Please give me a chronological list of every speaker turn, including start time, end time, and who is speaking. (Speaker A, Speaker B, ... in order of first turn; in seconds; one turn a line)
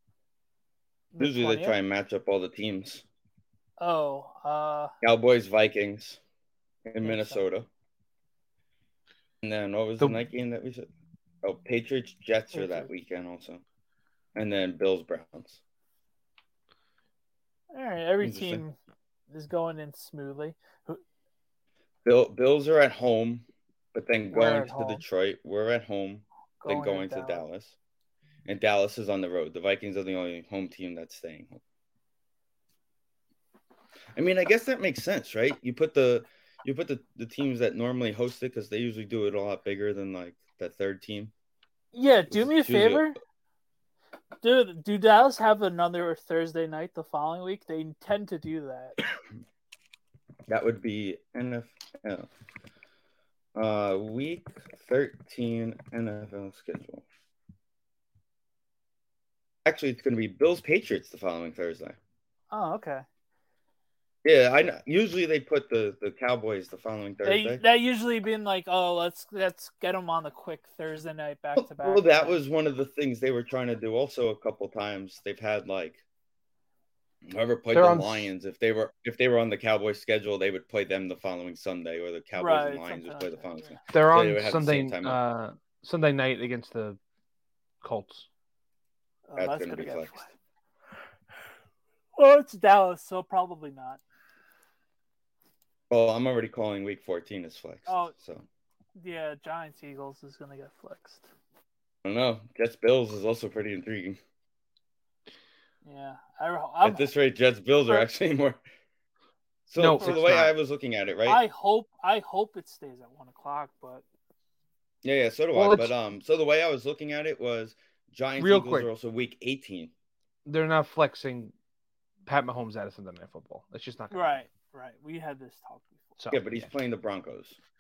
Speaker A: 1.1-1.8
Speaker B: 1.2-3.0
Speaker A: 3.8-4.9
Speaker B: 5.0-6.2
Speaker B: 6.9-7.7
Speaker A: 7.0-7.5
Speaker B: 9.4-10.9
Speaker C: 10.0-10.2
Speaker B: 11.4-13.6
Speaker A: 12.5-12.9
Speaker B: 14.3-15.6
Speaker A: 17.7-18.8
Speaker B: 18.2-18.6
Speaker A: 19.3-21.0
Speaker B: 22.1-27.8
Speaker A: 24.3-25.0
Speaker A: 26.6-27.4
Speaker B: 28.5-31.6
Speaker B: 34.1-41.3
Speaker A: 41.9-43.2
Speaker B: 42.3-43.1
Speaker A: 44.4-49.0
Speaker B: 50.5-52.3
Speaker B: 53.6-57.0
Speaker B: 59.6-62.0
Speaker A: 62.5-63.0
Speaker B: 64.2-67.6
Speaker A: 67.2-72.4
Speaker B: 71.6-76.0
Speaker B: 77.3-85.2
Speaker C: 77.7-78.3
Speaker A: 82.4-83.8
Speaker C: 83.9-87.0
Speaker C: 87.8-88.3
Speaker A: 89.3-90.3
Speaker B: 89.4-90.2
Speaker A: 92.2-94.0
Speaker B: 95.9-98.5
Speaker A: 97.9-98.2
Speaker A: 99.0-101.3
Speaker B: 102.0-104.2
Speaker A: 105.8-107.1
Speaker B: 106.8-108.6
Speaker B: 109.7-111.4
Speaker C: 109.8-110.5
Speaker A: 110.0-110.2
Speaker A: 111.3-114.0
Speaker B: 115.0-119.9
Speaker C: 115.5-115.9
Speaker C: 118.4-118.9
Speaker C: 120.5-121.5
Speaker C: 122.3-124.4
Speaker A: 124.1-126.1
Speaker C: 126.2-126.7
Speaker B: 126.3-127.6